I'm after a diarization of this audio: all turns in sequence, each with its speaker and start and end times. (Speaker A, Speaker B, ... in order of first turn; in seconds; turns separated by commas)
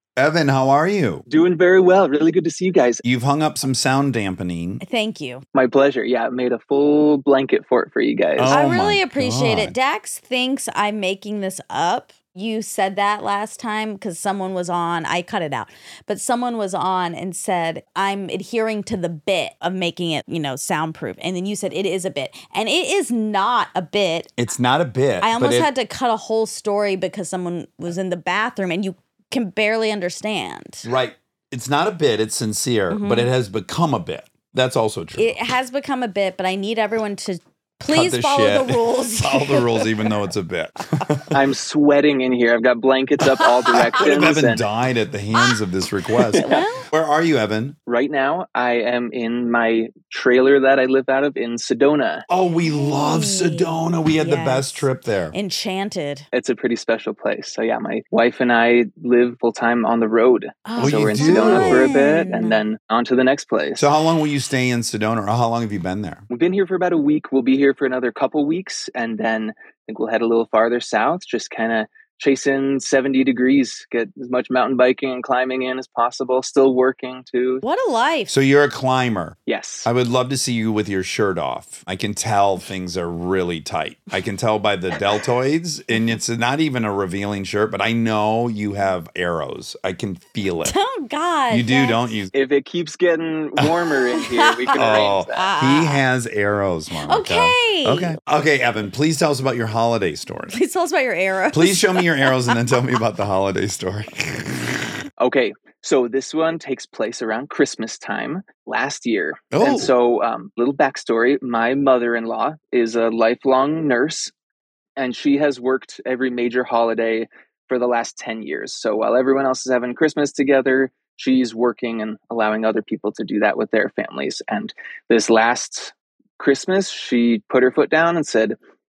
Speaker A: 0.2-1.2, Speaker B: 1.3-3.0, Speaker A: 3.0-4.8, Speaker C: 4.8-5.4, Speaker B: 5.5-8.6, Speaker A: 8.4-9.7, Speaker C: 8.5-24.3, Speaker A: 24.4-25.7, Speaker C: 25.2-30.9, Speaker A: 30.8-35.4, Speaker C: 32.9-33.3, Speaker C: 35.1-40.1, Speaker A: 37.9-41.3, Speaker B: 41.3-44.6, Speaker C: 43.6-44.0, Speaker A: 43.9-47.8, Speaker C: 46.3-46.9, Speaker B: 46.3-46.6, Speaker B: 47.9-52.2, Speaker A: 52.3-55.3, Speaker C: 52.6-56.3, Speaker B: 56.3-63.9, Speaker C: 60.6-62.6, Speaker A: 60.8-61.9, Speaker A: 63.8-66.2, Speaker B: 66.3-77.6, Speaker C: 77.6-78.3, Speaker A: 78.3-90.7, Speaker B: 79.5-79.9, Speaker C: 90.6-92.1, Speaker A: 91.5-92.3, Speaker B: 92.3-95.5, Speaker C: 94.1-96.0, Speaker A: 94.7-100.6, Speaker C: 97.0-98.2, Speaker C: 100.5-102.6, Speaker A: 101.5-104.8, Speaker B: 105.2-114.3, Speaker A: 109.5-109.9, Speaker B: 115.0-128.6